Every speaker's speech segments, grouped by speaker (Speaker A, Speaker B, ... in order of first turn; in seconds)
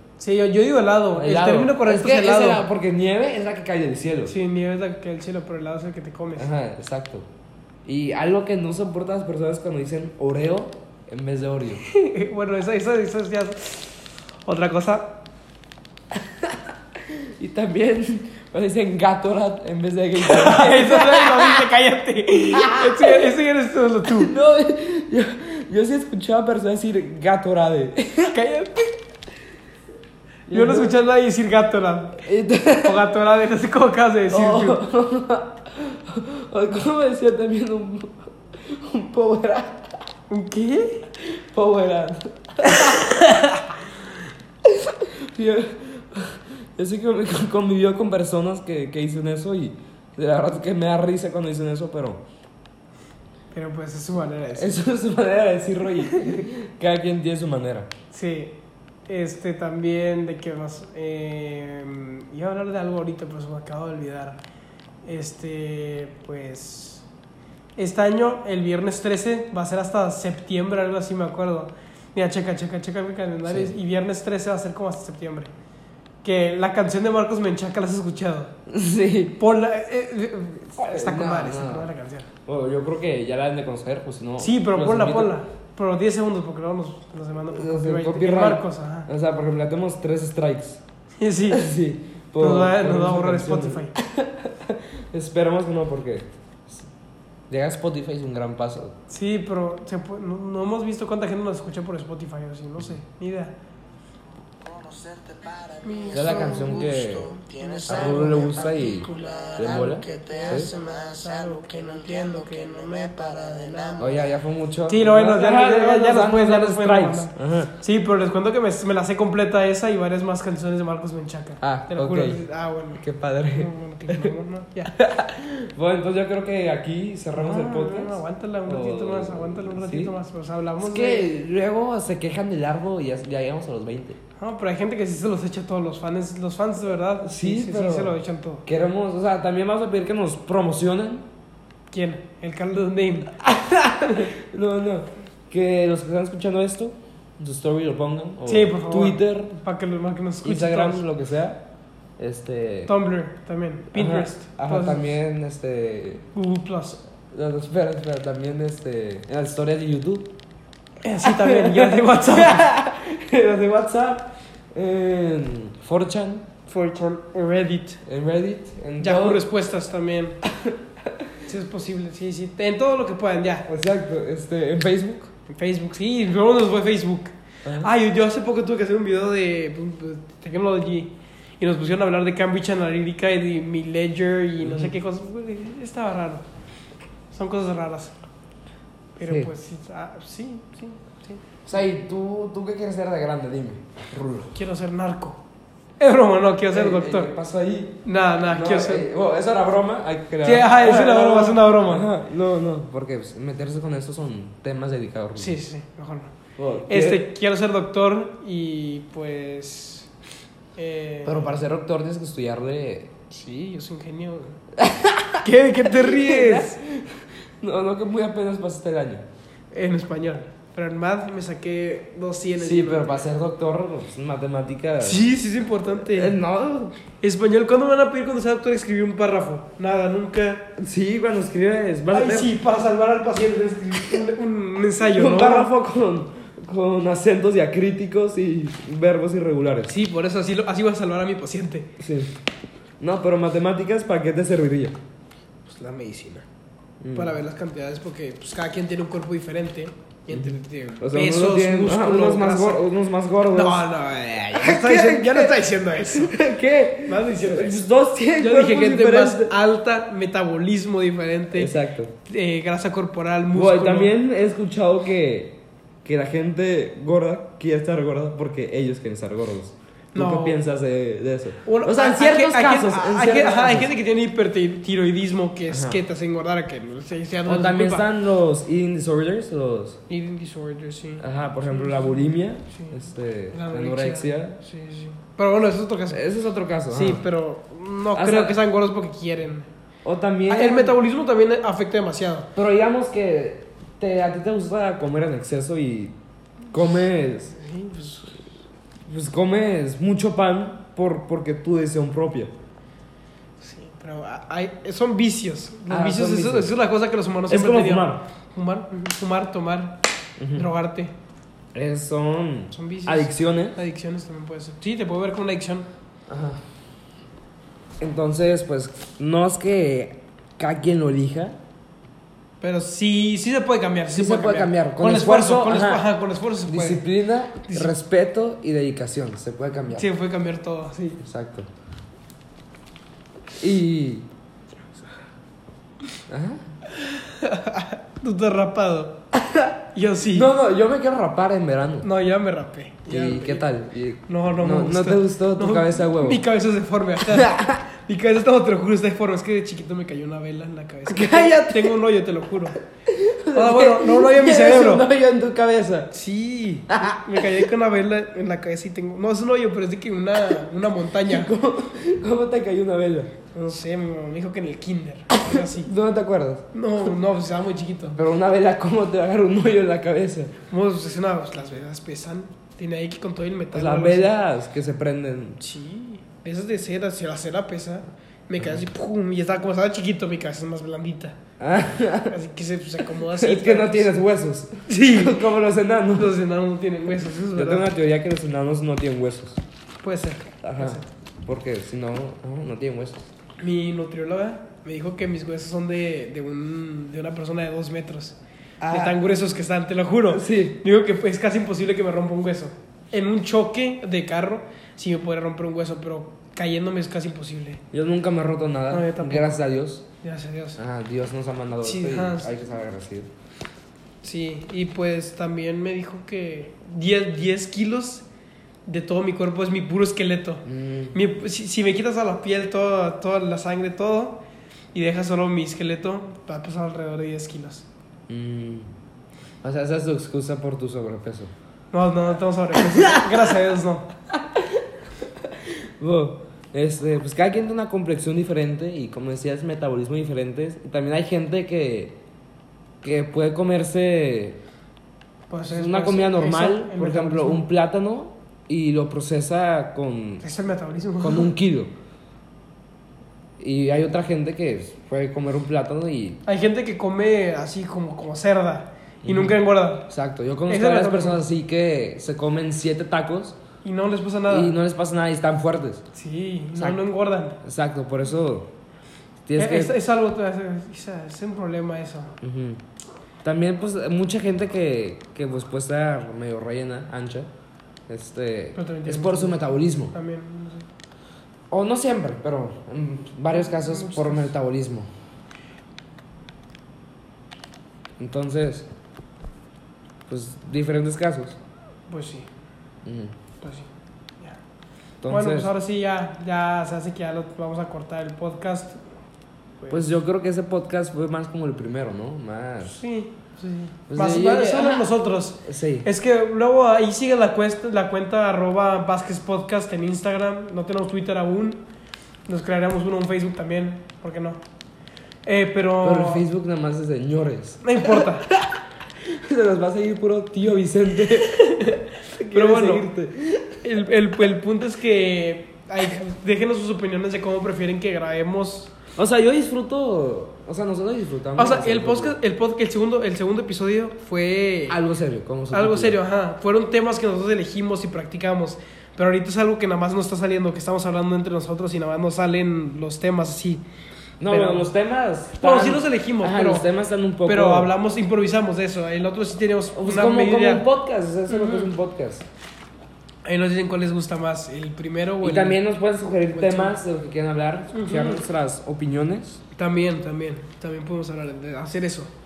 Speaker A: 0.2-2.6, 4.3-6.5, 11.8-15.2, 20.2-24.3, 28.2-28.9, 30.5-32.2, 32.8-34.8, 40.3-41.1, 42.6-43.7, 53.5-54.9, 56.1-56.4, 58.1-64.4, 65.0-67.0, 67.8-75.5, 76.2-78.5, 79.4-82.3, 84.4-89.1, 91.2-91.6, 92.4-93.9, 99.1-103.5, 105.8-114.1, 114.9-124.9, 127.3-131.3, 134.4-138.6, 141.9-143.3, 148.4-151.0, 152.9-155.1, 156.3-157.0, 161.0-162.7, 166.7-168.0, 169.0-170.4, 171.4-173.7, 175.5-186.4, 187.3-188.2, 189.2-191.4, 194.5-195.4, 196.0-197.3, 198.0-199.1, 200.4-202.1, 205.4-206.3, 206.9-210.1, 210.8-211.6, 213.3-214.6, 215.4-216.8, 219.7-223.2, 225.0-226.3, 227.2-230.7, 232.1-235.7, 239.9-241.9, 245.7-246.4, 247.1-252.8, 253.5-256.4, 257.1-257.8, 258.4-261.7, 262.2-264.1, 270.1-270.6, 271.6-278.1, 280.1-282.1, 282.7-283.0, 283.5-286.2, 286.9-289.7, 290.5-292.5, 297.5-298.4, 303.6-311.1, 312.7-315.9, 322.6-327.0, 329.9-331.2, 337.0-339.2, 339.9-340.5, 342.0-343.6, 344.3-352.8, 353.5-355.1, 356.1-361.5, 363.5-365.9, 366.7-368.2, 370.7-374.3, 375.6-381.4, 382.3-384.1, 384.9-385.4, 386.1-387.9, 390.0-391.1, 393.6-398.4, 398.9-407.8, 408.9-409.6, 410.2-410.8, 411.8-412.5, 414.2-418.2, 418.9-424.4, 424.9-427.9, 431.9-434.1, 445.5-447.6, 450.4-451.5, 456.4-460.1, 460.7-461.4, 463.8-464.7, 466.1-467.6, 469.6-472.3, 478.7-480.9, 483.5-484.5, 492.1-492.5, 493.6-493.9, 495.3-499.0, 499.8-500.1, 502.8-511.8, 512.5-514.6, 515.4-516.4, 517.8-518.5, 521.3-523.1, 523.8-528.9, 531.6-535.0, 535.7-543.8, 544.5-544.9, 545.6-546.9, 547.5-550.8, 551.5-551.9, 553.4-555.8, 556.5-557.0, 557.9-558.4, 559.7-562.3
Speaker B: 1.1-4.3, 6.3-7.3, 7.8-11.8, 16.1-16.6, 17.1-21.6, 22.6-23.3, 24.1-28.3, 30.5-30.9, 32.2-33.1, 34.3-39.9, 41.2-43.1, 44.6-52.2, 54.5-57.9, 73.5-73.7, 78.7-79.4, 80.8-81.9, 82.4-85.3, 87.5-90.8, 91.5-96.9, 97.5-98.9, 106.1-107.3, 107.9-110.7, 114.0-117.7, 121.6-122.4, 123.0-124.3, 124.9-130.2, 130.8-134.2, 137.2-141.2, 143.4-149.5, 150.4-151.6, 152.2-152.9, 153.9-156.2, 157.3-160.3, 161.2-166.5, 168.0-169.4, 170.4-171.3, 173.7-175.3, 184.6-184.9, 189.2-189.5, 191.6-194.5, 196.7-205.6, 206.6-207.3, 211.2-213.1, 214.8-219.2, 222.6-225.3, 226.0-226.9, 230.8-232.5, 233.9-234.2, 235.1-239.9, 242.0-242.3, 243.0-245.0, 247.0-247.4, 250.3-253.9, 254.5-259.5, 261.5-262.1, 263.5-273.9, 275.7-276.0, 277.4-280.0, 281.2-284.6, 286.1-287.2, 288.1-288.6, 290.0-291.0, 292.5-296.1, 296.7-297.5, 299.1-302.5, 305.9-306.7, 307.5-308.2, 310.4-310.7, 311.7-313.8, 316.3-316.6, 318.0-321.6, 324.1-326.1, 326.7-330.1, 331.2-331.7, 333.6-334.3, 336.3-336.6, 340.3-342.1, 343.1-346.4, 347.3-347.7, 351.1-351.9, 353.1-356.1, 356.9-357.6, 361.2-363.3, 365.4-366.7, 368.1-370.5, 373.7-375.6, 381.6-382.3, 383.2-386.4, 387.5-389.6, 390.6-393.3, 398.8-399.2, 400.3-400.8, 407.9-410.1, 410.8-413.3, 420.6-421.1, 428.3-428.9, 429.6-431.5, 432.9-433.2, 434.3-434.8, 435.5-442.2, 443.0-444.6, 445.7-450.4, 451.2-451.9, 453.6-456.4, 459.2-463.6, 464.5-466.0, 466.7-467.0, 467.6-468.7, 469.4-470.0, 472.4-472.8, 473.4-477.5, 478.1-480.1, 481.7-485.1, 488.2-488.9, 490.3-491.6, 493.0-493.3, 495.2-495.7, 499.9-503.0, 504.1-505.1, 505.6-506.1, 516.0-521.7, 522.3-523.8, 529.1-532.4, 534.9-536.2, 544.4-547.9, 549.9-552.4, 555.4-559.6
Speaker C: 104.6-114.3